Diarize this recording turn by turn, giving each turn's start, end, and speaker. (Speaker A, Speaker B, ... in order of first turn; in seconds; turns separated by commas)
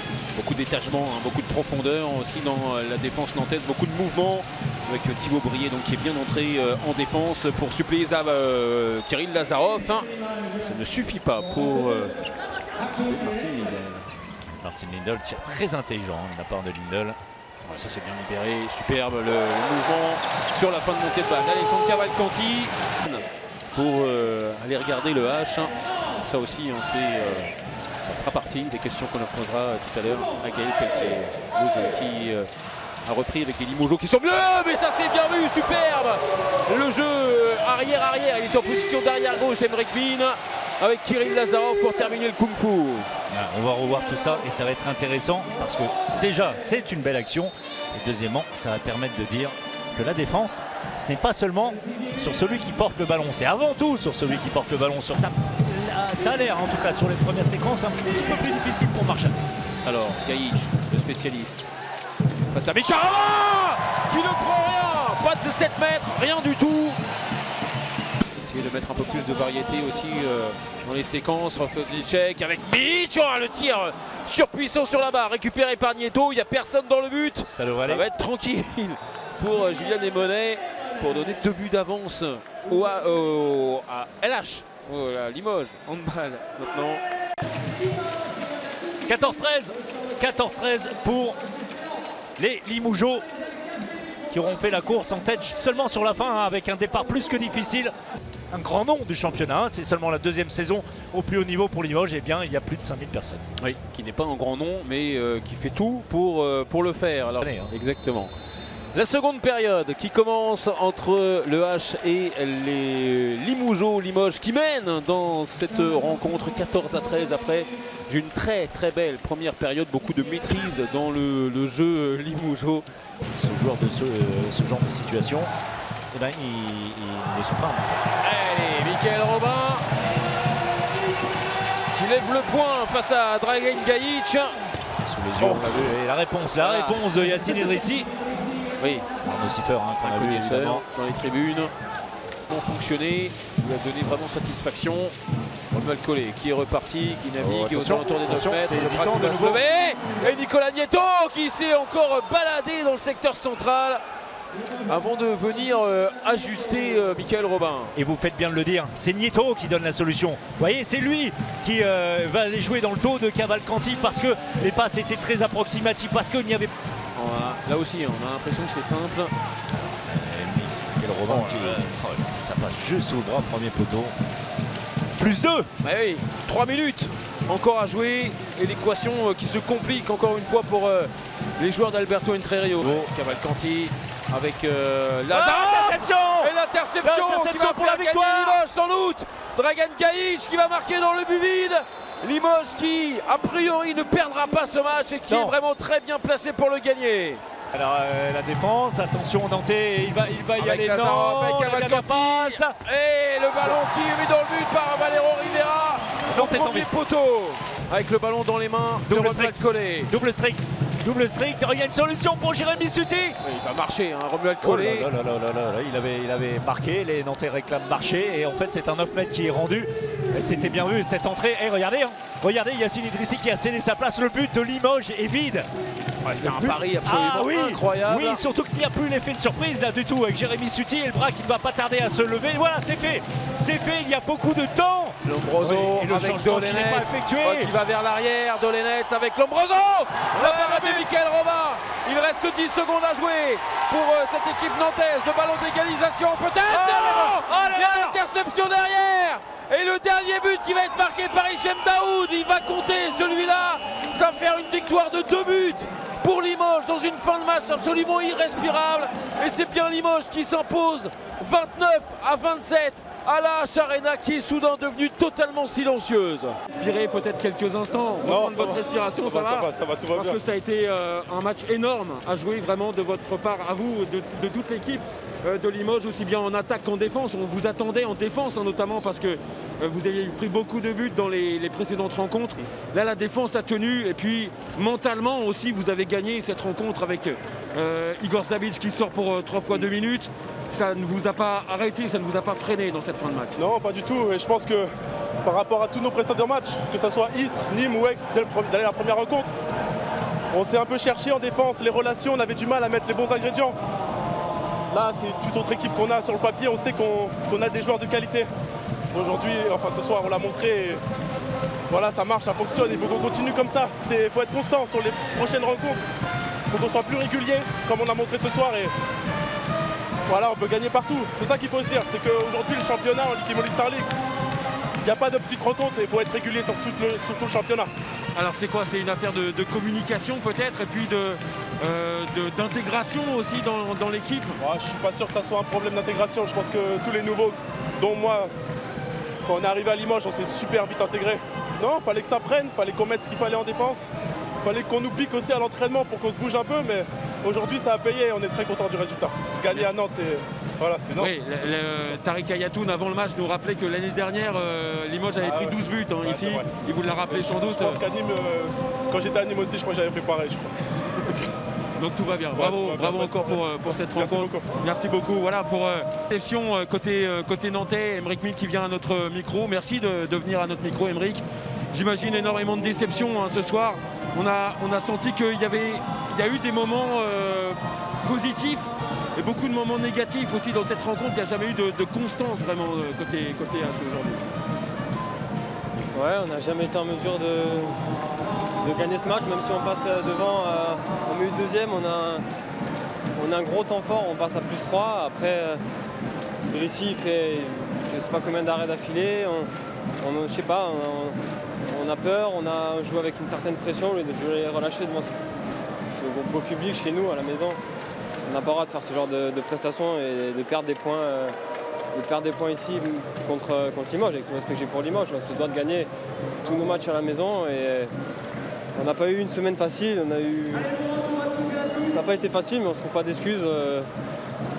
Speaker A: 0.3-12.1, Speaker A: 12.9-14.1, Speaker B: 14.5-17.2, Speaker A: 17.6-27.5, Speaker A: 28.0-32.5, Speaker A: 33.0-43.1, Speaker B: 43.3-59.4, Speaker A: 59.8-61.7, Speaker A: 62.5-67.0, Speaker A: 68.4-87.0, Speaker B: 77.4-78.0, Speaker B: 89.1-91.4, Speaker B: 92.4-93.2, Speaker B: 94.3-97.9, Speaker B: 98.5-103.4, Speaker A: 103.6-108.3, Speaker B: 107.4-107.7, Speaker A: 108.9-122.8, Speaker B: 123.3-125.5, Speaker B: 126.1-128.0, Speaker A: 128.2-129.8, Speaker A: 131.9-134.6, Speaker B: 135.0-138.1, Speaker A: 135.4-135.9, Speaker A: 136.6-137.6, Speaker A: 138.8-139.1, Speaker B: 139.2-140.8, Speaker A: 140.0-141.7, Speaker A: 142.5-145.1, Speaker A: 145.7-154.0, Speaker B: 147.4-149.6, Speaker A: 154.9-157.9, Speaker B: 157.9-166.7, Speaker A: 167.1-169.3, Speaker B: 169.8-174.2, Speaker A: 171.3-171.8, Speaker B: 175.2-175.7, Speaker A: 175.8-197.4, Speaker B: 185.3-188.6, Speaker B: 195.3-195.6, Speaker B: 197.7-202.8, Speaker A: 200.6-210.1, Speaker B: 206.3-206.9, Speaker B: 209.1-213.4, Speaker A: 213.4-215.1, Speaker B: 214.6-225.7, Speaker A: 226.2-228.4, Speaker B: 226.4-237.7, Speaker A: 235.2-266.6, Speaker B: 240.4-241.1, Speaker B: 246.7-248.2, Speaker C: 266.7-293.6, Speaker D: 268.2-270.4, Speaker D: 293.6-294.9, Speaker D: 295.4-299.5, Speaker D: 300.5-303.8, Speaker D: 304.9-308.5, Speaker D: 309.1-311.0, Speaker D: 311.9-316.0, Speaker D: 316.7-318.9, Speaker D: 320.3-324.1, Speaker D: 325.0-327.9, Speaker C: 328.3-334.6, Speaker D: 334.6-338.5, Speaker D: 339.4-344.1, Speaker D: 344.6-352.2, Speaker C: 351.1-358.0, Speaker D: 355.4-356.7, Speaker D: 357.3-360.7, Speaker C: 362.0-384.5, Speaker D: 362.5-364.6, Speaker E: 386.1-387.9, Speaker E: 388.8-392.4, Speaker E: 393.4-395.8, Speaker E: 396.7-399.7, Speaker E: 400.2-401.4, Speaker E: 401.9-405.3, Speaker E: 406.1-407.8, Speaker E: 408.4-411.5, Speaker E: 412.1-416.1, Speaker E: 416.6-418.1, Speaker E: 418.9-420.9, Speaker E: 422.1-424.1